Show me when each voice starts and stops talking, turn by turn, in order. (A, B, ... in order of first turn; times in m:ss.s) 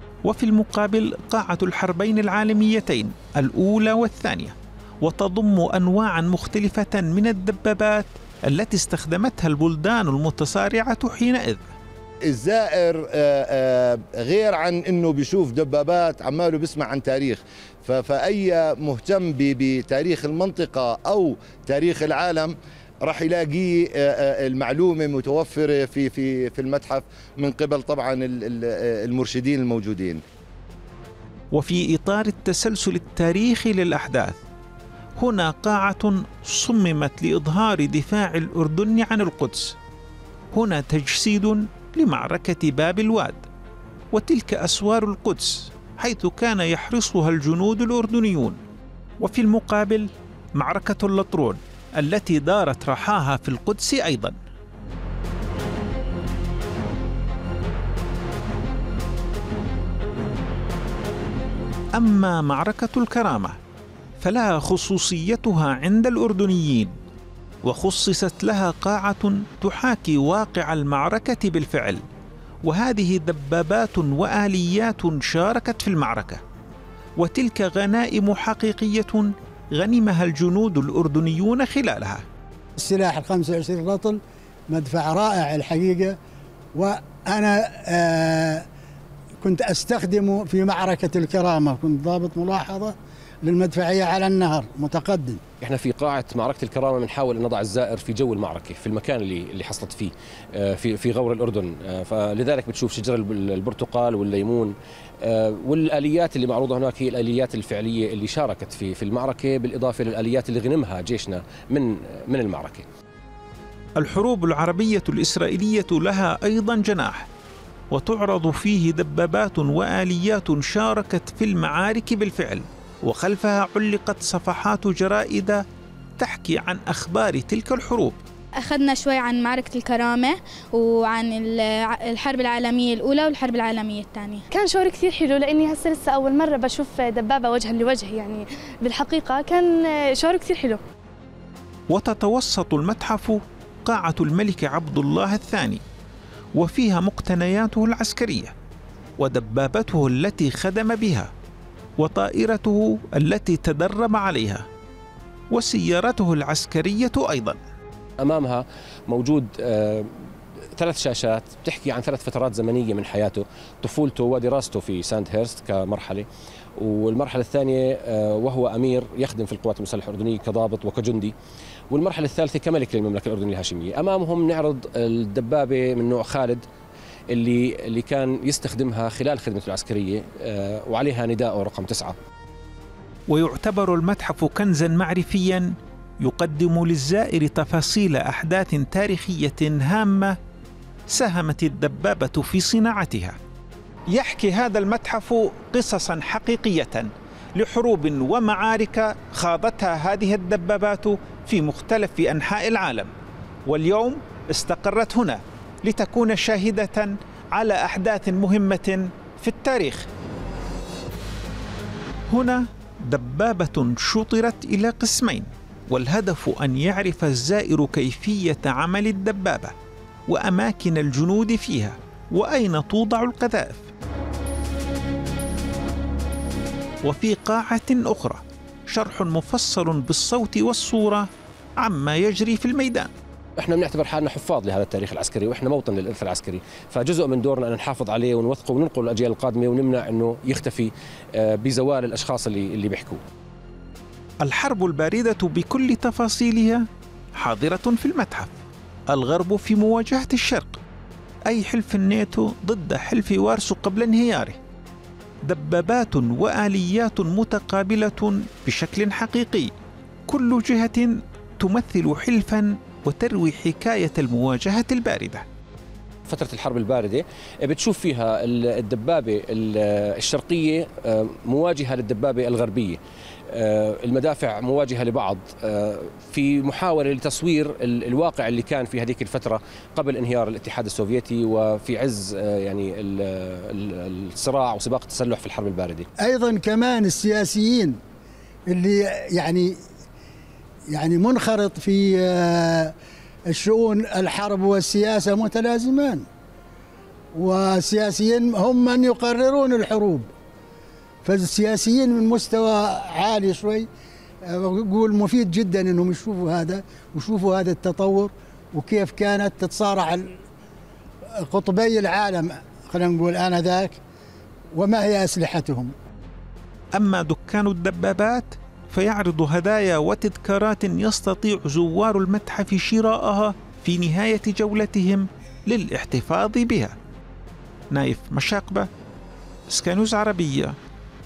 0:00.2-0:11.7 A
0:12.2-0:30.2 B
0:31.5-0:34.4 A
0:35.2-0:39.8 A
0:40.5-0:43.4 A
0:44.1-0:48.6 A
0:49.2-0:54.4 A
1:01.9-1:03.6 A
1:04.2-1:06.9 A
1:07.6-1:12.0 A
1:12.6-1:16.4 A
1:17.2-1:22.2 A
1:22.8-1:26.2 C
1:26.7-1:28.6 C
1:29.4-1:35.4 C
1:35.6-1:52.8 D
1:54.0-1:57.3 A
1:57.9-2:05.6 A
2:06.2-2:08.2 A
2:08.6-2:14.4 E
2:14.5-2:20.8 F
2:21.9-2:25.8 A
2:26.6-2:28.5 A
2:29.2-2:31.3 A
2:32.0-2:34.6 A
2:35.5-2:37.6 A
2:38.2-2:40.1 D
2:40.8-2:51.3 D
2:51.9-2:56.6 D
2:57.3-3:02.1 D
3:03.3-3:10.4 A
3:11.1-3:13.4 A
3:14.1-3:23.1 A
3:23.6-3:30.1 A
3:32.3-3:39.7 A
3:40.3-3:43.9 A
3:47.0-3:53.1 A
3:53.6-4:03.2 D
4:04.4-4:06.8 A
4:07.4-4:08.5 A
4:09.1-4:10.8 A
4:11.5-4:14.6 A
4:15.4-4:19.7 A
4:20.3-4:25.4 A
4:26.3-4:33.0 D
4:33.5-4:46.1 D
4:46.2-4:48.0 C
4:48.7-4:49.7 C
4:50.9-4:52.9 C
4:53.5-4:56.2 C
4:57.3-5:00.3 C
5:01.2-5:03.9 C
5:04.4-5:10.4 C
5:11.4-5:14.0 C
5:14.7-5:15.9 C
5:16.9-5:26.9 A
5:27.9-5:28.9 A
5:29.7-5:30.8 A